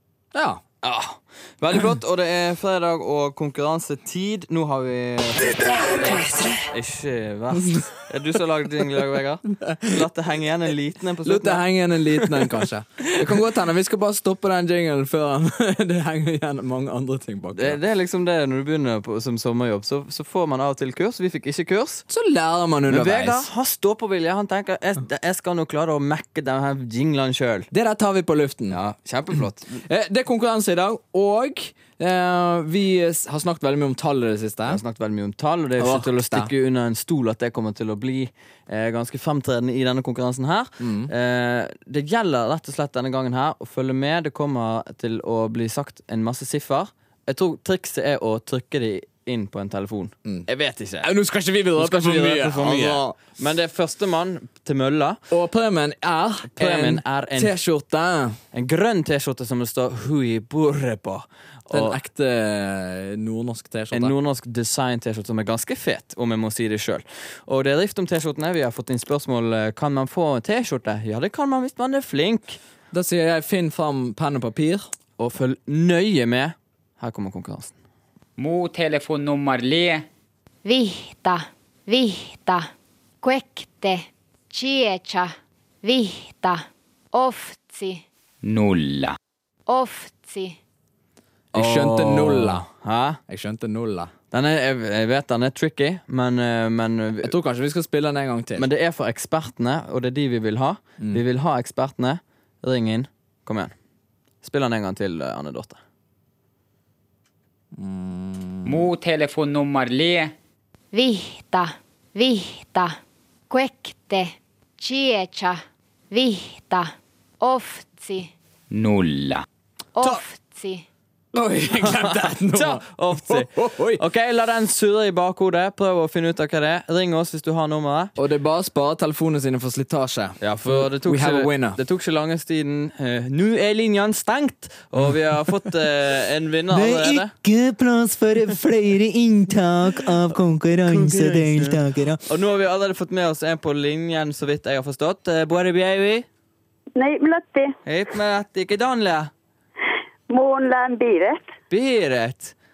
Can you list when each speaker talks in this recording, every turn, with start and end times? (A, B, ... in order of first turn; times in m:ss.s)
0:00.3-0:00.6 A
0:00.8-0:12.6 B
0:09.6-0:10.1 A
0:11.2-0:17.8 A
0:17.5-0:22.0 B
0:22.1-0:23.5 A
0:22.9-0:27.7 B
0:27.7-0:28.8 A
0:28.7-0:29.8 B
0:29.8-0:34.8 A
0:34.7-0:51.1 B
0:35.8-0:36.5 A
0:40.8-0:41.1 A
0:51.0-0:53.0 A
0:51.8-0:55.2 B
0:55.3-0:58.4 A
0:56.5-0:57.6 B
0:58.5-1:02.0 B
1:01.7-1:04.1 A
1:03.9-1:12.6 B
1:12.9-1:14.9 A
1:15.2-1:17.7 B
1:18.4-1:20.0 C
1:20.6-1:22.7 D
1:23.2-1:25.3 D
1:25.8-1:26.6 D
1:27.1-1:28.0 D
1:28.4-1:29.2 C
1:29.7-1:30.6 D
1:31.5-1:32.6 A
1:31.5-1:33.2 B
1:33.3-1:34.1 A
1:34.3-1:37.3 B
1:37.2-1:38.7 A
1:38.6-1:43.7 B
1:44.4-1:45.8 B
1:47.8-1:48.9 A
1:48.7-1:50.3 C
1:50.9-1:52.9 D
1:53.5-1:55.6 D
1:56.1-1:56.9 D
1:57.4-1:58.3 D
1:58.7-1:59.4 C
2:00.0-2:00.8 D
2:01.3-2:04.0 A
2:01.7-2:08.1 B
2:08.2-2:11.8 A
2:10.4-2:17.4 B
2:16.7-2:21.8 E
2:20.0-2:26.2 B
2:27.0-2:27.7 F
2:27.8-2:29.3 B
2:30.3-2:31.4 F
2:31.7-2:32.6 B